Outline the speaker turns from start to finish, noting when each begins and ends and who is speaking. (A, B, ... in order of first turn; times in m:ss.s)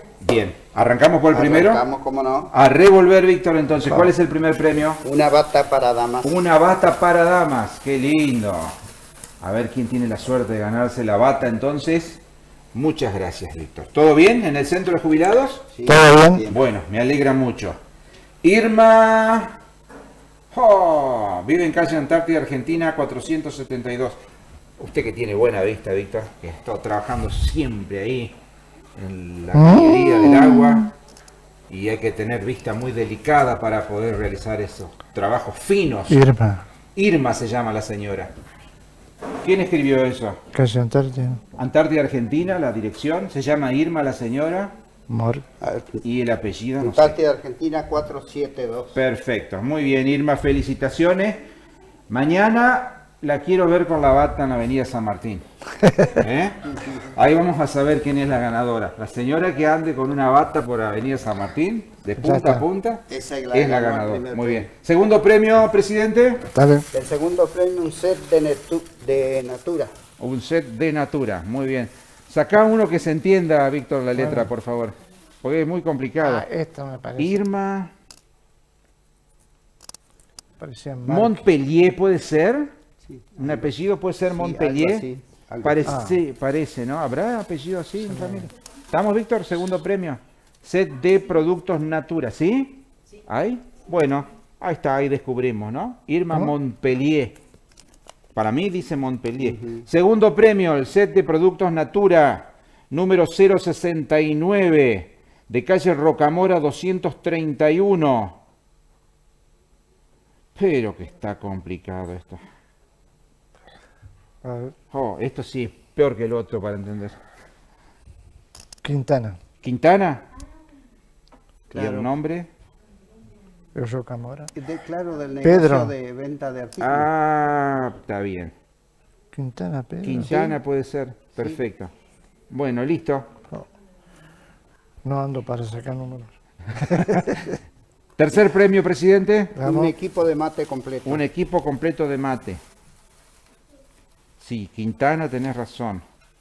0:00.2-0:01.8 A
0:01.3-0:02.5 B
0:02.5-0:05.0 A
0:05.0-0:06.3 B
0:06.2-0:08.8 A
0:09.4-0:12.2 A
0:12.7-0:15.7 A
0:15.7-0:16.6 B
0:15.9-0:16.4 C
0:16.5-0:17.8 A
0:18.4-0:19.6 A
0:20.5-0:24.2 A
0:24.8-0:28.4 A
0:29.0-0:30.9 A
0:29.5-0:30.8 C
0:31.7-0:36.2 A
0:36.1-0:36.7 C
0:37.0-0:38.3 A
0:39.4-0:40.4 A
0:40.5-0:41.4 C
0:41.6-0:44.7 A
0:45.1-0:45.4 C
0:45.6-0:46.0 B
0:46.0-0:47.2 A
0:46.8-0:49.0 B
0:48.9-0:51.4 A
0:52.1-0:55.4 A
0:55.9-0:56.2 C
0:56.2-1:06.5 A
0:56.7-0:57.0 B
1:02.2-1:02.7 C
1:03.1-1:04.7 B
1:06.5-1:06.9 C
1:06.9-1:09.9 B
1:10.2-1:16.5 A
1:14.2-1:14.5 C
1:16.2-1:17.4 C
1:17.2-1:17.9 A
1:20.6-1:21.4 C
1:21.1-1:22.7 A
1:23.0-1:23.7 B
1:23.4-1:25.0 A
1:24.3-1:26.0 B
1:25.6-1:37.4 A
1:25.8-1:26.2 C
1:28.1-1:28.5 C
1:38.4-1:48.4 A
1:39.4-1:39.8 B
1:50.6-1:52.4 A
1:54.4-1:54.7 C
1:54.9-1:57.2 A
1:58.8-1:59.4 C
1:59.6-2:00.3 A
2:01.7-2:02.1 B
2:01.7-2:02.5 A
2:03.8-2:04.5 C
2:04.6-2:07.1 B
2:05.4-2:05.9 C
2:06.8-2:08.5 A
2:09.3-2:10.3 C
2:10.0-2:11.9 A
2:10.2-2:10.6 B
2:12.5-2:13.3 A
2:15.0-2:17.6 C
2:18.2-2:19.6 A
2:19.6-2:19.9 C
2:19.6-2:21.2 B
2:21.1-2:22.6 A
2:24.4-2:26.0 A